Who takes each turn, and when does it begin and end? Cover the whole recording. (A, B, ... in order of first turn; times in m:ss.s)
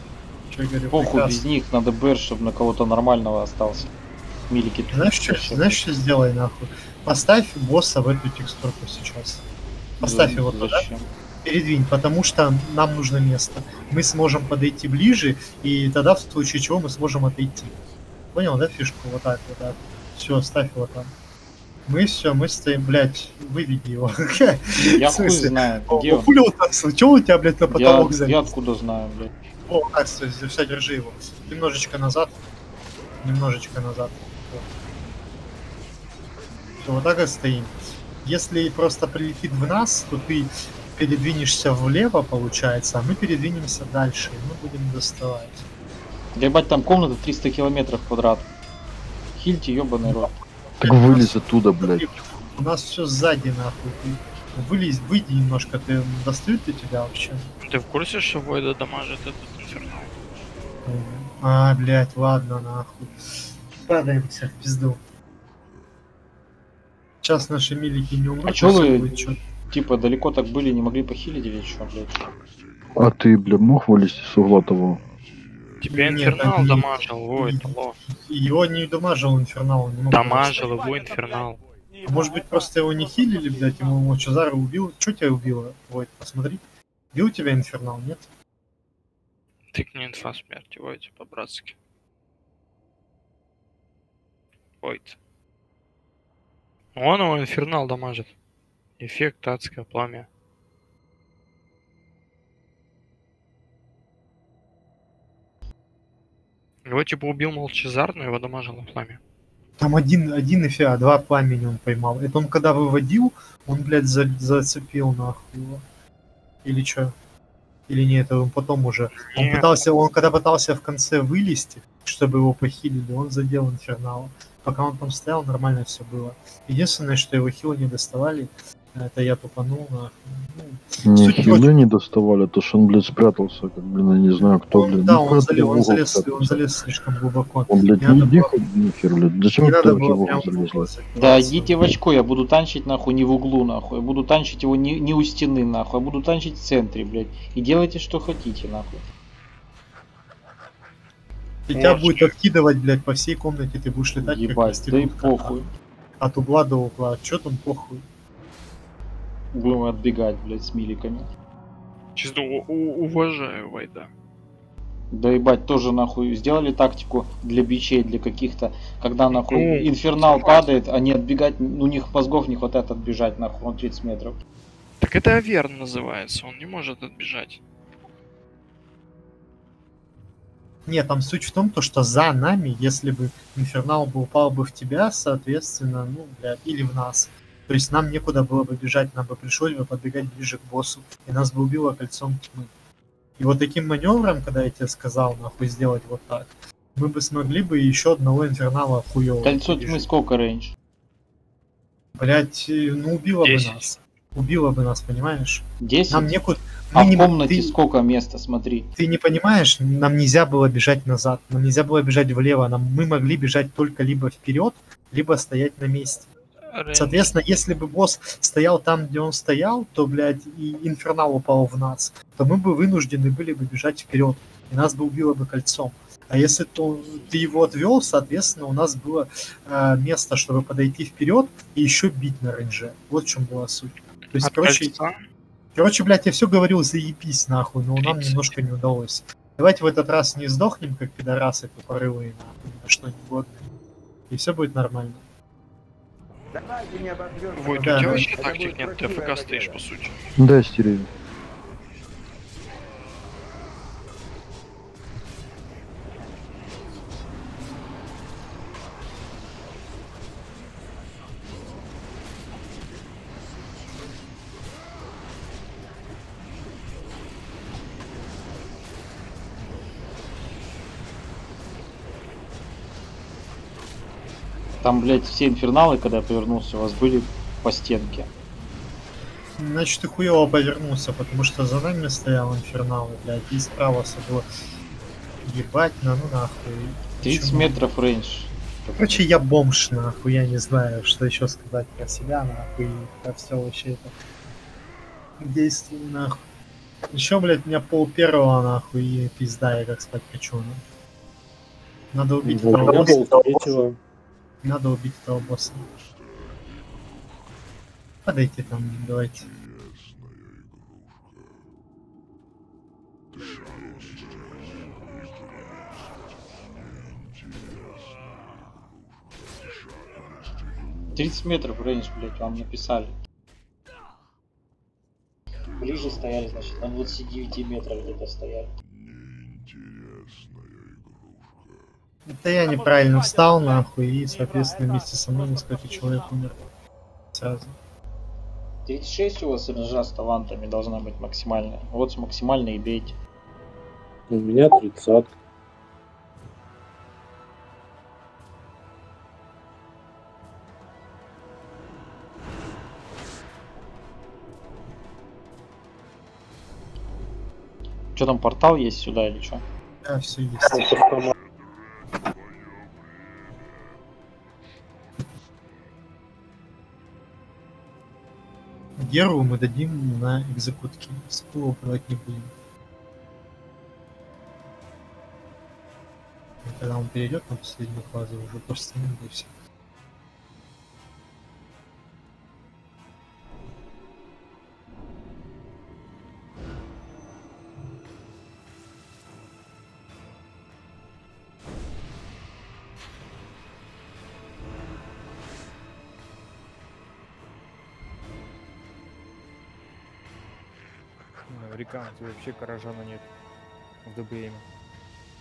0:00.5-0:01.4 A
0:00.9-0:03.9 B
0:04.5-0:05.8 B
0:04.9-0:09.4 A
0:10.0-0:11.1 B
0:10.0-0:10.9 A
0:11.4-0:17.8 A
0:18.3-0:21.1 A
0:21.9-0:28.5 A
0:24.9-0:26.3 B
0:27.7-0:29.3 B
0:29.7-0:32.4 A
0:33.2-0:34.7 A
0:36.8-0:45.6 A
0:46.4-0:48.5 B
0:49.4-0:50.3 B
0:50.0-0:57.5 A
0:50.8-0:52.2 C
0:57.6-1:00.1 D
1:00.9-1:05.0 A
1:07.2-1:09.4 A
1:08.5-1:12.3 B
1:13.0-1:15.0 C
1:15.8-1:18.0 D
1:15.9-1:20.6 A
1:20.1-1:21.6 D
1:22.0-1:28.3 A
1:29.7-1:31.8 D
1:34.8-1:35.2 D
1:37.0-1:38.3 D
1:39.0-1:40.3 D
1:46.9-1:49.2 D
1:49.8-1:55.8 A
1:56.6-1:57.1 A
1:57.9-2:11.7 A
1:59.3-1:59.7 D
2:11.0-2:16.6 C
2:14.7-2:18.6 A
2:17.7-2:20.9 C
2:19.6-2:21.9 A
2:21.2-2:29.0 B
2:31.7-2:35.6 A
2:31.7-2:32.3 D
2:34.2-2:35.7 B
2:36.2-2:38.0 A
2:39.5-2:41.3 B
2:42.2-2:44.1 D
2:45.1-2:54.4 B
2:49.3-2:50.8 D
2:55.0-2:57.6 D
3:00.9-3:12.7 A
3:13.4-3:20.1 A
3:19.4-3:20.7 B
3:22.2-3:27.8 A
3:23.4-3:23.9 D
3:25.8-3:26.3 B
3:26.9-3:28.9 B
3:29.0-3:36.3 A
3:36.7-3:37.3 D
3:36.9-3:55.0 A
3:54.4-3:55.2 D
3:55.8-4:03.7 A
3:58.0-3:58.6 D
4:04.3-4:05.2 A
4:07.5-4:10.2 D
4:07.8-4:08.3 A
4:10.4-4:11.1 C
4:34.8-4:38.3 B
4:39.6-4:44.5 A
4:45.4-4:47.8 A
4:47.2-4:49.3 B
4:49.0-4:54.1 A
4:55.4-4:56.4 A
4:57.1-5:00.8 A
5:02.1-5:03.8 A
5:02.4-5:04.0 E
5:04.6-5:05.9 A
5:08.2-5:09.5 A
5:21.1-5:23.2 B
5:25.8-5:28.7 B
5:32.3-5:36.6 A
5:37.3-5:37.8 A
5:38.9-5:43.2 B
5:44.3-5:45.3 E
5:58.2-5:59.6 B
6:00.0-6:01.0 A
6:00.6-6:01.3 E
6:09.0-6:12.5 A
6:16.6-6:19.5 A
6:41.5-6:43.3 F
6:44.0-6:44.7 F